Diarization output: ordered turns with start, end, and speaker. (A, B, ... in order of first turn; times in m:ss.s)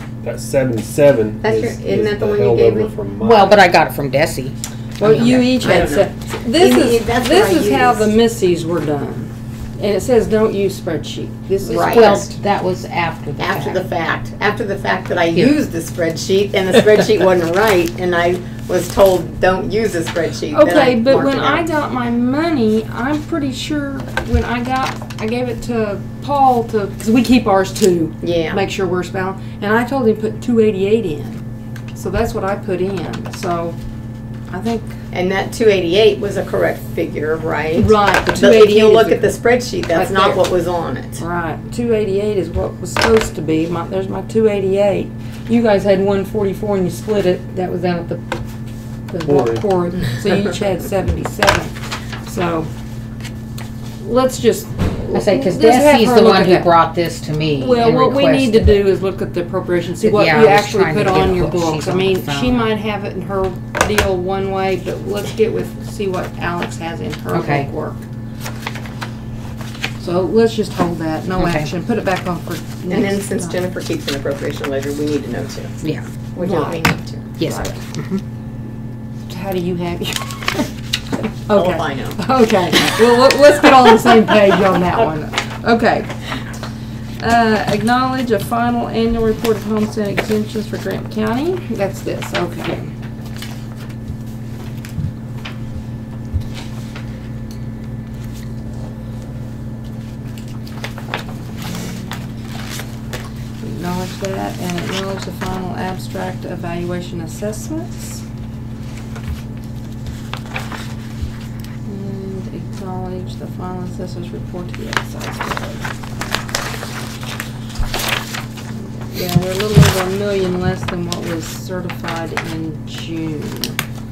0:00.2-0:03.6 A
0:01.4-0:02.9 B
0:03.2-0:05.6 C
0:05.0-0:12.3 D
0:05.4-0:08.1 B
0:11.6-0:12.3 B
0:11.7-0:13.8 C
0:13.4-0:21.6 B
0:20.5-0:31.4 D
0:28.2-0:28.6 B
0:31.9-0:33.8 D
0:34.5-0:35.0 D
0:35.1-0:41.2 B
0:37.8-0:39.4 D
0:39.9-0:40.4 D
0:41.2-0:48.2 D
0:49.1-0:52.7 D
0:49.2-0:49.6 A
0:54.0-0:56.8 D
0:55.1-0:58.9 C
0:57.6-1:08.0 D
1:00.0-1:02.7 C
1:07.3-1:07.7 C
1:10.0-1:13.6 D
1:11.4-1:11.7 C
1:12.9-1:15.8 B
1:15.8-1:16.1 C
1:16.3-1:17.3 B
1:16.4-1:17.8 D
1:17.4-1:18.2 C
1:19.3-1:26.1 D
1:21.5-1:22.2 B
1:27.2-1:32.9 D
1:41.7-1:42.1 D
1:43.6-1:48.2 D
1:51.8-1:55.9 D
1:58.8-2:03.8 D